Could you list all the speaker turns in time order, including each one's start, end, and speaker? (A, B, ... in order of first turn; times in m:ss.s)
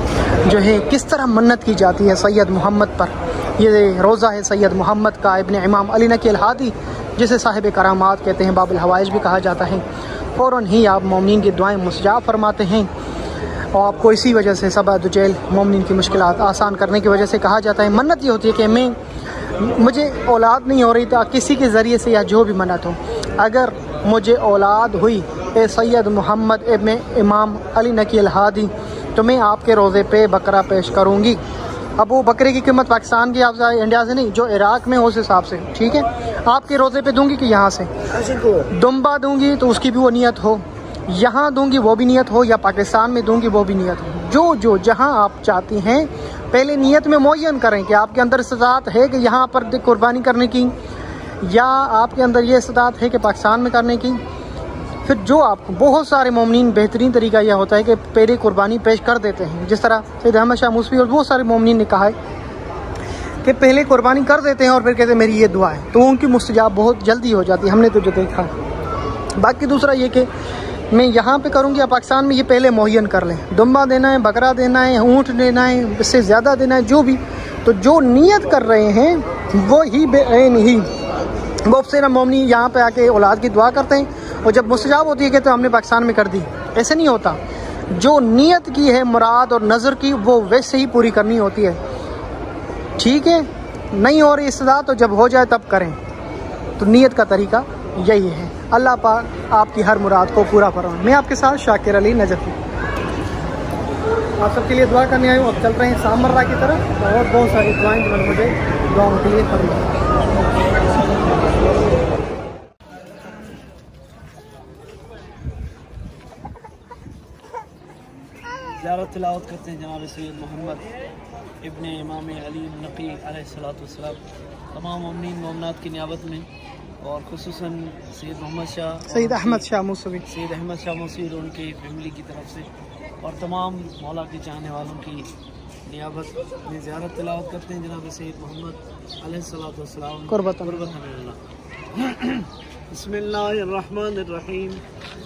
0:00.4-0:09.8 A
0:10.4-0:12.9 A
0:13.7-0:31.4 A
0:32.0-0:37.9 A
0:38.6-0:50.7 A
0:51.4-0:54.2 A
0:55.0-1:02.2 A
1:03.4-1:08.5 A
1:09.4-1:10.3 A
1:10.9-1:20.9 A
1:21.6-1:27.4 A
1:27.9-1:31.8 A
1:33.0-1:36.0 A
1:36.8-1:42.6 A
1:44.4-1:49.9 A
1:58.8-2:00.9 B
2:01.6-2:04.2 B
2:04.7-2:06.5 B
2:07.0-2:09.6 B
2:09.1-2:10.2 A
2:10.3-2:12.7 B
2:13.2-2:15.3 B
2:15.9-2:21.4 B
2:20.3-2:20.9 A
2:22.0-2:24.8 B